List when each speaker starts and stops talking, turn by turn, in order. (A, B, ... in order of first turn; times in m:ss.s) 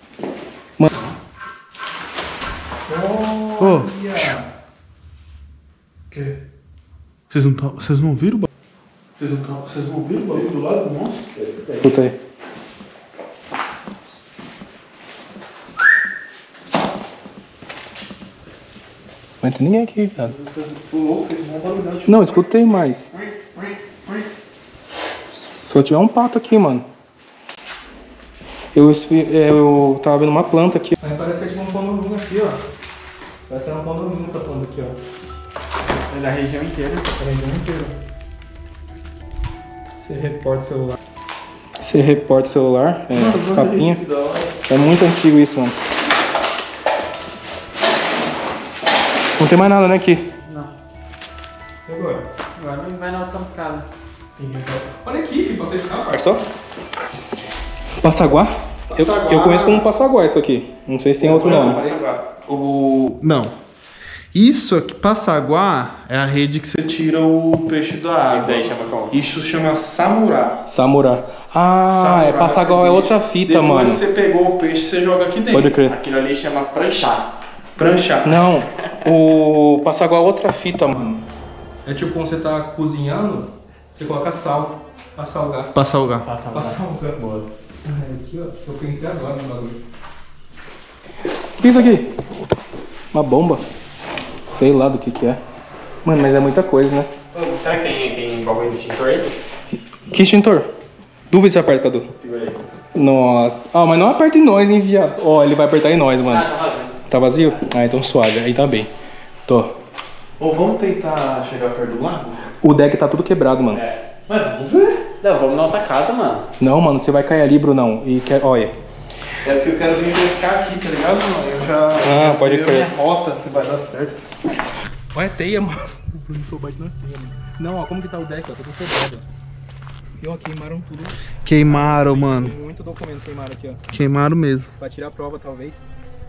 0:00.9-0:01.2 A
0:02.9-0:04.5 B
0:03.6-0:04.4 C
0:06.1-0:06.4 C
0:07.3-0:08.5 C
0:09.2-0:11.2 C
0:11.4-0:11.9 A
0:11.8-0:12.2 B
0:19.4-0:20.3 B
0:20.2-0:24.3 C
0:22.0-0:23.1 B
0:25.7-0:26.9 B
0:28.7-0:32.6 B
0:33.5-0:35.0 B
0:36.0-0:37.1 A
0:37.2-0:38.0 B
0:40.0-0:41.0 B
0:41.8-0:44.0 B
0:43.1-0:44.8 C
0:44.6-0:45.8 B
0:49.4-0:50.3 B
0:50.4-0:50.7 A
0:51.9-0:52.2 B
0:52.6-0:54.8 A
0:55.0-0:56.5 B
0:58.0-1:01.8 B
0:58.9-0:59.9 C
1:01.2-1:03.6 C
1:01.4-1:02.0 A
1:04.3-1:10.6 C
1:08.2-1:09.2 A
1:10.7-1:14.0 B
1:11.9-1:15.8 C
1:15.5-1:16.0 B
1:15.8-1:17.3 A
1:17.8-1:18.4 C
1:18.2-1:21.2 B
1:21.8-1:25.7 B
1:25.7-1:26.3 C
1:26.2-1:27.5 A
1:26.5-1:27.1 B
1:27.8-1:29.8 B
1:31.6-1:32.1 B
1:33.1-1:33.6 B
1:34.5-1:35.4 B
1:36.0-1:37.1 B
1:37.3-1:39.3 A
1:40.1-1:40.7 B
1:41.3-1:42.1 B
1:42.1-1:42.6 A
1:43.0-1:46.5 B
1:46.2-1:47.1 A
1:47.1-1:48.9 B
1:49.5-1:49.8 B
1:50.4-1:52.5 C
1:52.6-1:53.8 B
1:53.6-1:54.0 A
1:54.3-1:55.1 C
1:55.2-1:56.5 A
1:56.6-1:58.7 B
1:59.4-2:04.2 C
2:02.0-2:02.9 B
2:05.1-2:09.2 B
2:10.2-2:13.8 B
2:11.4-2:12.6 C
2:13.9-2:14.7 C
2:14.8-2:15.9 B